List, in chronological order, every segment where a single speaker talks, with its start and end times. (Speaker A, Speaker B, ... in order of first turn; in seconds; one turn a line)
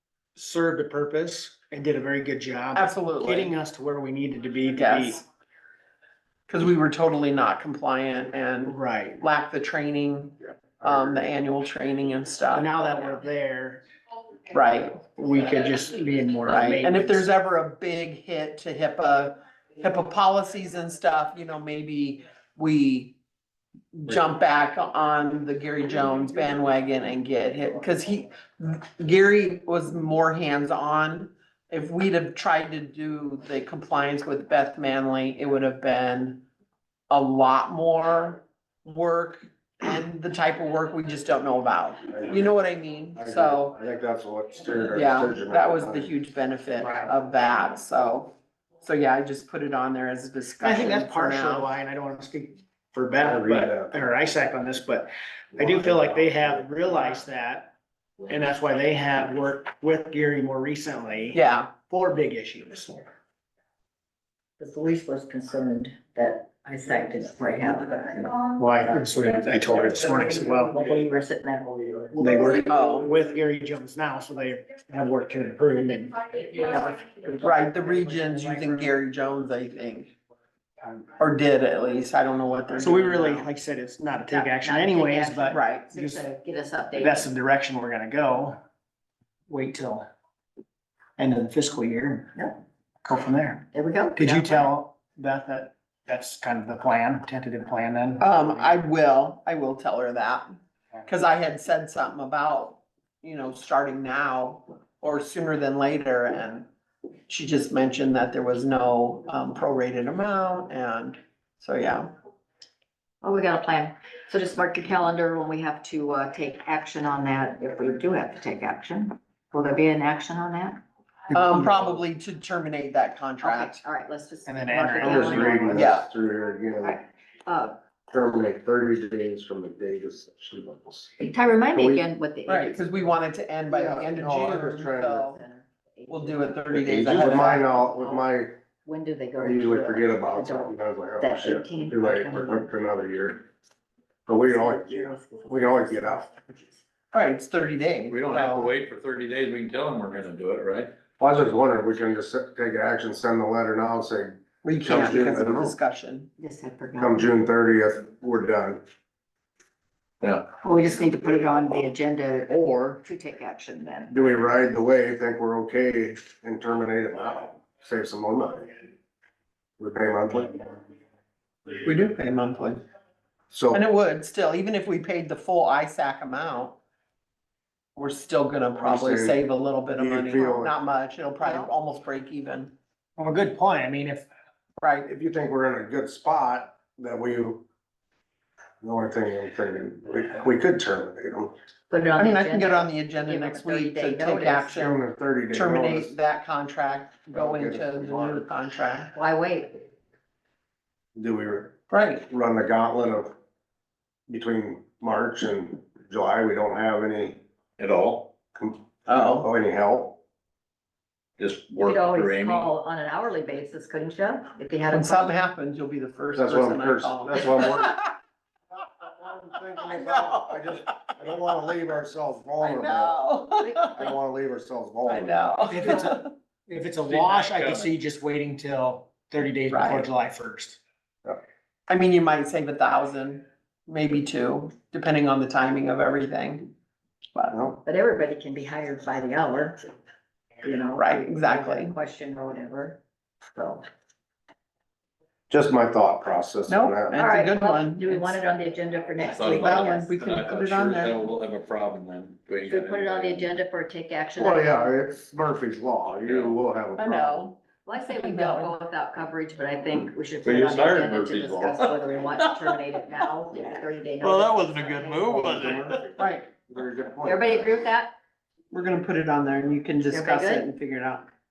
Speaker A: 0.3-5.2
Speaker B: 2.8-3.5
Speaker B: 4.7-5.2
Speaker B: 6.5-12.7
Speaker A: 8.6-9.2
Speaker A: 12.5-13.8
Speaker B: 14.5-14.9
Speaker A: 15.1-17.3
Speaker B: 16.5-23.1
Speaker B: 23.9-36.4
Speaker B: 37.1-43.8
Speaker C: 42.1-42.4
Speaker C: 43.2-46.1
Speaker B: 44.9-51.7
Speaker A: 46.8-47.1
Speaker A: 50.6-57.7
Speaker C: 53.2-53.9
Speaker A: 58.3-63.0
Speaker B: 61.3-61.7
Speaker D: 64.6-68.5
Speaker A: 68.6-70.7
Speaker D: 70.1-72.2
Speaker A: 72.1-76.1
Speaker B: 72.3-73.1
Speaker B: 76.6-80.1
Speaker B: 81.2-83.5
Speaker A: 82.8-86.2
Speaker D: 84.3-87.3
Speaker B: 85.5-85.9
Speaker A: 87.0-88.6
Speaker A: 89.5-90.1
Speaker A: 91.2-92.5
Speaker A: 93.0-93.6
Speaker D: 93.7-94.7
Speaker A: 94.2-98.2
Speaker B: 98.2-106.7
Speaker B: 107.3-112.1
Speaker D: 113.2-120.8
Speaker B: 121.3-123.8
Speaker D: 123.4-125.9
Speaker A: 124.5-125.9
Speaker C: 125.0-127.0
Speaker B: 125.7-126.1
Speaker D: 126.8-127.8
Speaker C: 128.1-131.1
Speaker D: 131.2-132.8
Speaker C: 131.7-132.0
Speaker B: 132.4-135.4
Speaker D: 133.7-134.5
Speaker C: 133.8-135.2
Speaker D: 135.1-136.6
Speaker B: 136.1-137.7
Speaker C: 136.7-138.5
Speaker D: 137.1-138.3
Speaker D: 138.8-142.7
Speaker C: 139.4-143.4
Speaker C: 144.3-146.3
Speaker D: 144.5-146.7
Speaker B: 147.1-148.7
Speaker E: 148.1-150.9
Speaker C: 151.2-155.7
Speaker B: 154.6-156.3
Speaker D: 156.4-157.3
Speaker C: 157.0-158.8
Speaker E: 160.2-160.4
Speaker D: 160.6-164.2
Speaker C: 162.5-162.9
Speaker C: 164.1-168.8
Speaker C: 169.8-170.8
Speaker B: 171.8-172.8
Speaker C: 173.5-173.8
Speaker B: 173.7-176.8
Speaker B: 177.9-182.7
Speaker C: 178.8-179.4
Speaker C: 179.9-180.7
Speaker D: 181.4-181.7
Speaker A: 183.2-184.2
Speaker B: 184.8-185.1
Speaker C: 185.1-187.6
Speaker C: 188.8-191.5
Speaker D: 191.9-194.8
Speaker B: 192.2-195.0
Speaker C: 194.8-196.1
Speaker B: 195.5-199.1
Speaker C: 197.3-198.4
Speaker D: 199.1-199.8
Speaker C: 201.2-201.8
Speaker B: 201.9-202.2
Speaker C: 202.3-203.3
Speaker C: 204.3-207.4
Speaker E: 207.8-208.3
Speaker C: 208.5-210.2
Speaker B: 209.1-209.5
Speaker E: 211.4-212.7
Speaker D: 211.8-215.3
Speaker B: 214.9-218.1
Speaker C: 216.3-218.0
Speaker C: 219.0-223.2
Speaker B: 219.8-220.8
Speaker B: 222.6-224.0
Speaker D: 223.6-224.2
Speaker C: 223.9-225.4
Speaker B: 225.1-226.3
Speaker A: 225.7-230.8
Speaker E: 227.1-227.9
Speaker B: 229.7-230.1
Speaker B: 231.9-236.7
Speaker B: 237.3-237.6
Speaker C: 237.5-237.8
Speaker D: 237.8-239.9
Speaker D: 240.6-243.0
Speaker B: 240.9-241.9
Speaker D: 243.5-243.8
Speaker C: 245.5-247.1
Speaker B: 246.7-248.4
Speaker D: 247.2-250.1
Speaker E: 249.2-253.6
Speaker B: 249.5-251.2
Speaker D: 252.7-255.0
Speaker C: 254.3-257.4
Speaker E: 256.2-256.6
Speaker B: 257.0-257.6
Speaker D: 257.9-265.9
Speaker B: 258.1-258.7
Speaker E: 260.4-262.8
Speaker E: 264.2-266.1
Speaker B: 266.2-266.5
Speaker C: 266.7-267.7
Speaker D: 267.2-268.1
Speaker B: 268.7-271.3
Speaker D: 270.1-270.7